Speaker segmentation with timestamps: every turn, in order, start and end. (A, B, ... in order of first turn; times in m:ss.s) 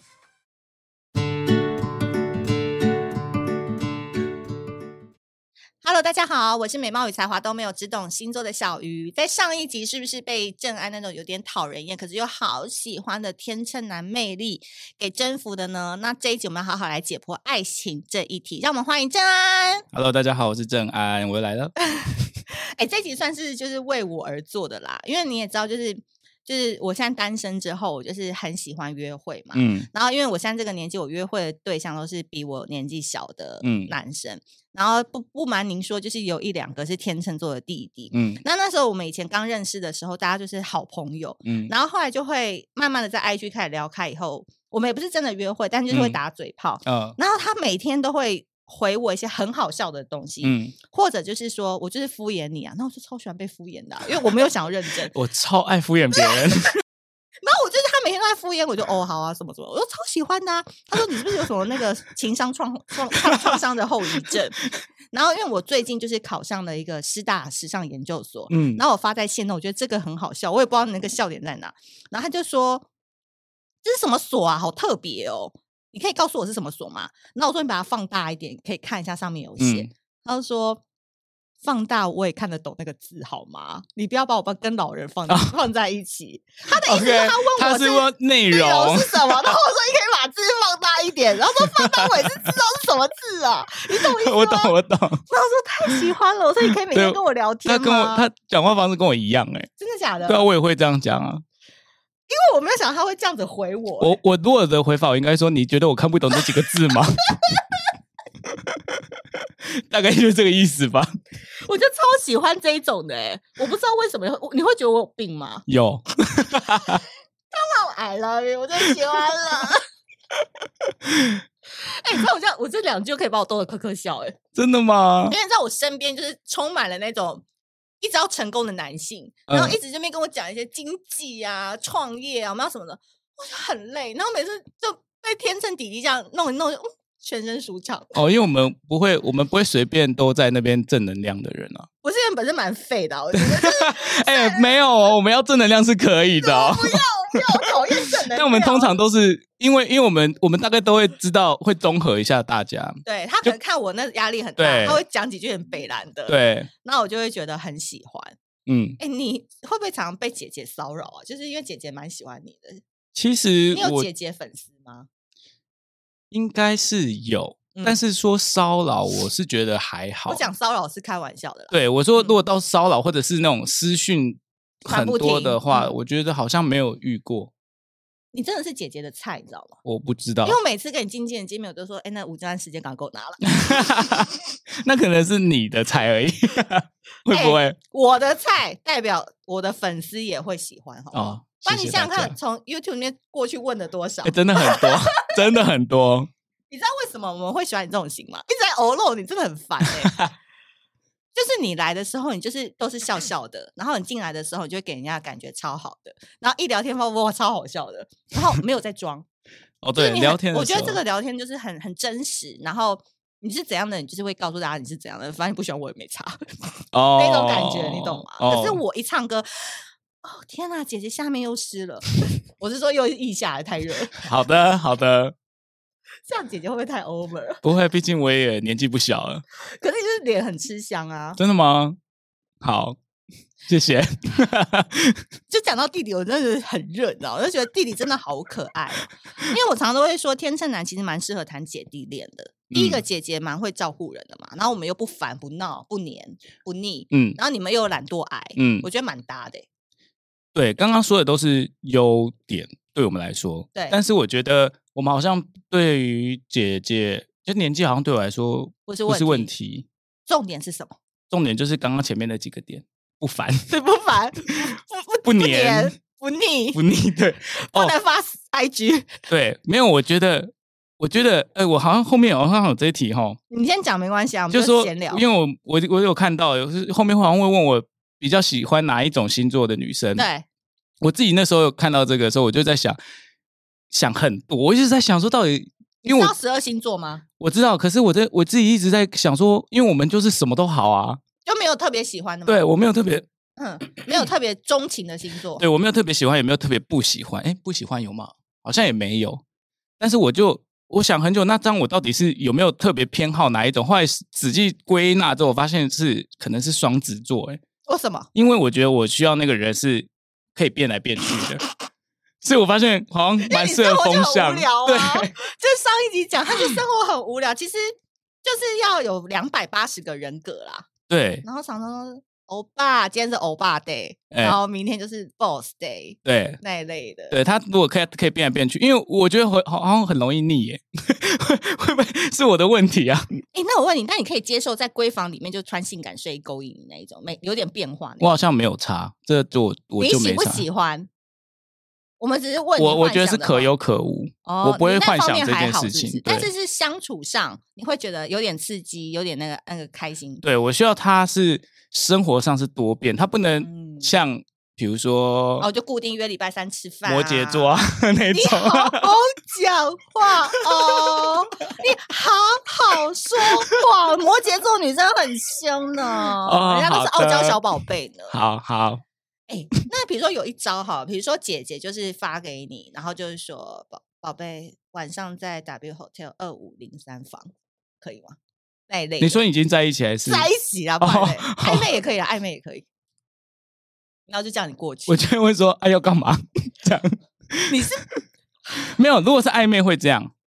0:05.8-0:19.9 A
0:19.9-0:21.7 B
0:21.9-0:55.1 A
0:29.5-0:29.9 B
0:33.6-0:33.9 B
0:38.1-0:38.4 B
0:41.4-0:41.7 B
0:45.9-0:46.2 B
0:46.9-0:47.2 B
0:50.4-0:50.8 B
0:55.1-0:56.7 B
0:56.2-0:56.4 A
0:57.4-1:04.6 A
1:05.1-1:12.9 A
1:08.5-1:08.8 B
1:13.8-1:20.8 A
1:19.6-1:19.9 B
1:21.6-1:34.7 A
1:26.8-1:29.5 B
1:31.6-1:32.3 B
1:34.0-1:35.2 B
1:35.3-1:38.3 A
1:36.9-1:39.7 B
1:39.8-1:40.5 A
1:40.2-1:41.4 B
1:42.3-1:44.2 A
1:44.0-1:47.3 B
1:48.4-1:49.0 B
1:49.7-1:51.2 B
1:51.6-1:55.7 A
1:55.7-1:57.0 B
1:57.5-1:59.8 A
2:00.9-2:01.4 B
2:01.9-2:04.4 A
2:04.6-2:05.4 B
2:05.3-2:07.4 A
2:08.0-2:18.2 A
2:09.5-2:09.8 B
2:18.1-2:21.9 B
2:22.0-2:25.1 A
2:23.4-2:27.4 B
2:26.4-2:29.0 A
2:28.2-2:33.5 B
2:33.0-2:38.4 A
2:34.6-2:35.0 B
2:36.3-2:36.7 B
2:38.7-2:39.0 B
2:39.0-2:42.8 A
2:43.2-2:44.1 B
2:43.7-2:45.1 A
2:46.3-2:50.4 B
2:47.7-2:48.0 A
2:50.3-2:52.4 A
2:51.7-2:57.5 B
2:54.9-2:55.9 A
2:58.3-2:59.8 A
2:59.8-3:00.6 B
3:00.4-3:04.2 A
3:03.4-3:07.8 B
3:07.3-3:15.0 A
3:11.1-3:12.4 B
3:14.2-3:16.3 B
3:16.7-3:20.2 A
3:19.8-3:20.3 B
3:21.4-3:29.3 A
3:29.8-3:31.0 B
3:30.0-3:36.4 A
3:36.9-3:38.8 B
3:37.2-3:44.3 A
3:44.2-3:45.3 B
3:46.3-3:47.6 A
3:47.6-3:49.4 B
3:49.6-3:51.4 A
3:51.4-3:52.0 B
3:52.6-3:53.0 B
3:53.7-3:55.2 B
3:55.5-4:09.7 A
4:02.7-4:03.0 B
4:07.1-4:07.4 B
4:08.6-4:08.9 B
4:10.6-4:19.9 B
4:18.9-4:19.5 A
4:20.3-4:21.0 A
4:21.3-4:23.7 B
4:23.7-4:26.8 A
4:25.2-4:26.0 B
4:26.7-4:27.9 B
4:27.6-4:29.1 A
4:29.3-4:33.4 B
4:33.5-4:35.2 A
4:34.5-4:40.3 B
4:40.2-4:40.4 A
4:41.0-4:43.0 B
4:43.9-4:46.3 B
4:46.0-4:47.2 A
4:47.4-4:51.2 B
4:51.4-4:52.6 A
4:52.5-4:53.3 B
4:53.6-4:55.6 A
4:55.6-4:59.4 B
5:00.0-5:07.6 B
5:07.9-5:08.3 A
5:08.4-5:11.6 B
5:12.4-5:15.3 B
5:13.4-5:17.9 A
5:18.4-5:20.9 A
5:21.1-5:21.4 B
5:21.4-5:27.4 A
5:24.3-5:24.6 B
5:26.2-5:26.6 B
5:27.3-5:33.3 B
5:33.5-5:38.4 A
5:38.2-5:40.6 B
5:40.0-5:41.1 A
5:42.2-5:43.7 A
5:42.8-5:46.5 B
5:44.4-5:50.4 A
5:50.4-5:55.7 B
5:53.6-5:54.1 A
5:55.6-6:08.4 A
5:57.1-5:59.1 B
6:00.7-6:01.3 B
6:06.4-6:07.6 B
6:08.3-6:09.0 B
6:09.5-6:18.4 A
6:18.9-6:19.4 A
6:19.2-6:20.5 B
6:20.2-6:22.9 A
6:21.0-6:21.9 B
6:24.3-6:25.2 A
6:25.1-6:27.8 B
6:27.7-6:28.0 A
6:28.8-6:30.3 B